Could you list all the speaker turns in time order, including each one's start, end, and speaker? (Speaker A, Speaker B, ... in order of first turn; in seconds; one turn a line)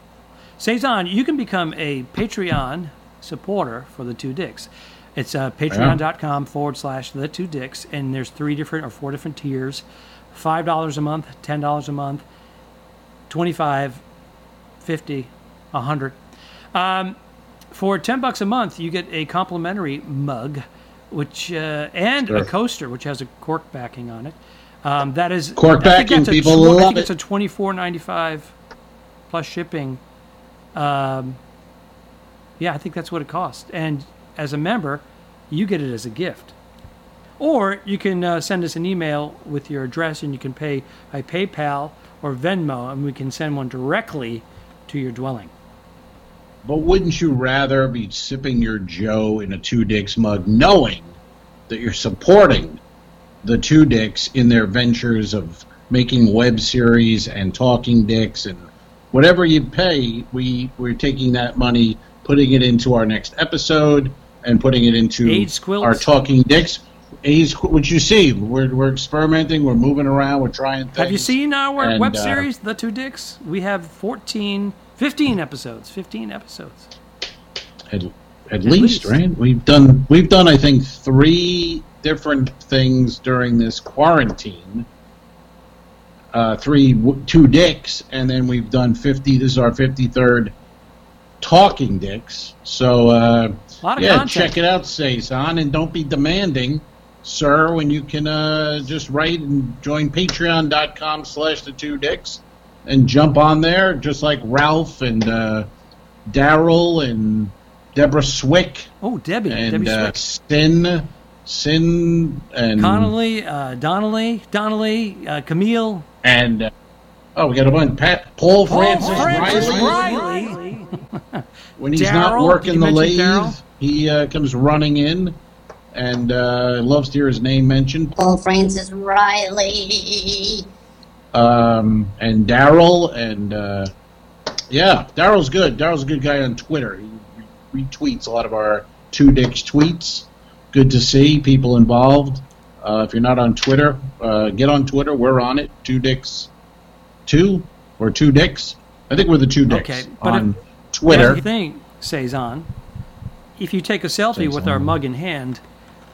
Speaker A: 0.6-12.2
Speaker B: 5.7-6.0
Speaker A: 13.3-14.0
Speaker A: 14.8-16.2
Speaker A: 16.7-17.1
Speaker A: 17.7-28.5
Speaker B: 22.2-22.5
Speaker B: 25.6-27.1
Speaker A: 29.3-30.0
Speaker A: 30.7-31.4
Speaker A: 32.6-36.5
Speaker A: 37.4-45.5
Speaker B: 46.6-51.1
Speaker B: 51.7-52.8
Speaker B: 53.4-72.5
Speaker A: 65.2-66.1
Speaker A: 71.0-76.9
Speaker B: 77.9-84.8
Speaker A: 78.7-79.2
Speaker B: 86.3-90.5
Speaker B: 91.4-105.7
Speaker A: 93.8-94.5
Speaker B: 106.3-108.9
Speaker A: 109.0-110.2
Speaker B: 109.5-113.1
Speaker A: 112.8-116.0
Speaker B: 116.2-116.7
Speaker B: 117.3-120.2
Speaker A: 118.7-121.4
Speaker B: 121.8-125.4
Speaker A: 121.9-123.6
Speaker B: 125.9-128.2
Speaker C: 128.2-130.6
Speaker B: 131.3-133.9
Speaker B: 134.7-146.5
Speaker B: 147.3-151.4
Speaker A: 149.7-150.5
Speaker A: 151.1-152.7
Speaker A: 153.6-155.6
Speaker B: 154.3-155.0